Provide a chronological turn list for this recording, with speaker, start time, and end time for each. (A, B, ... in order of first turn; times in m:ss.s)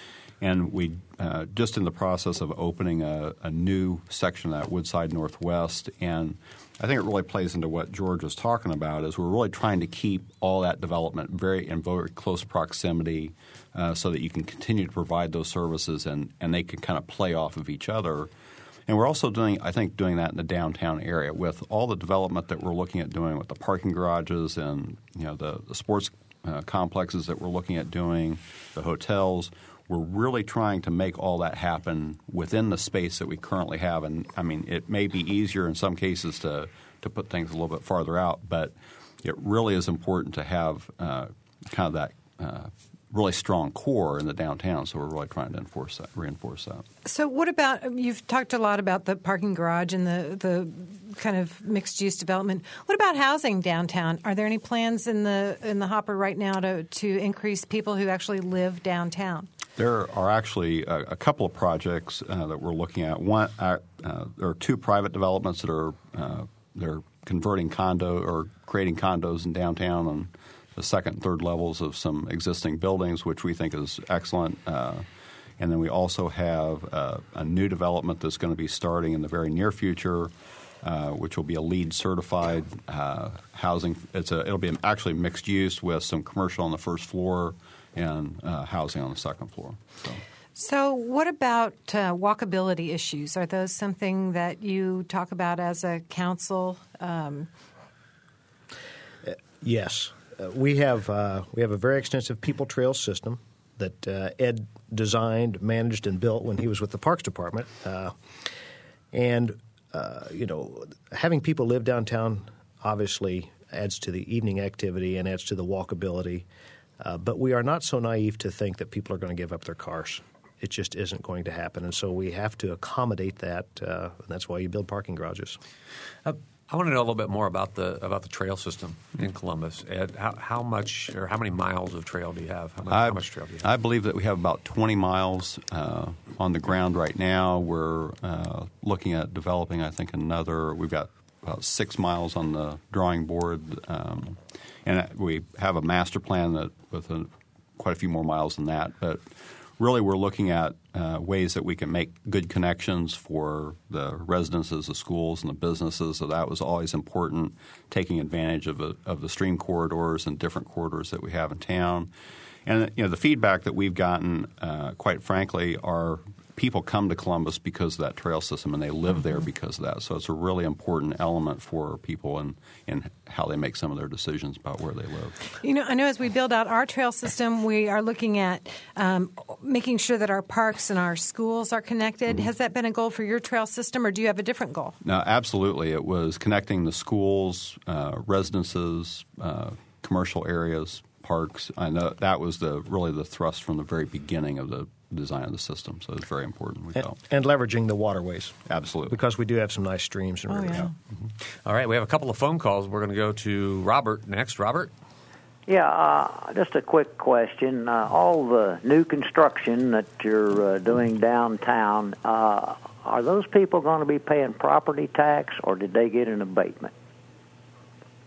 0:00.4-0:18.3 A
0:18.9-0:46.8 A
0:47.0-0:59.5 B
0:59.8-1:15.0 A
1:15.6-1:20.3 A
1:20.8-1:30.2 A
1:30.6-1:37.5 B
1:39.3-1:48.5 C
1:49.1-1:56.5 C
1:57.0-2:05.6 C
2:06.2-2:13.7 D
2:12.9-2:29.2 A
2:29.8-2:42.1 A
2:42.7-2:55.4 A
2:55.6-3:05.0 B
3:05.0-3:17.2 A
3:17.3-3:20.9 C
3:18.7-3:19.2 A
3:20.5-3:20.9 B
3:21.6-3:24.9 D
3:25.7-3:36.9 E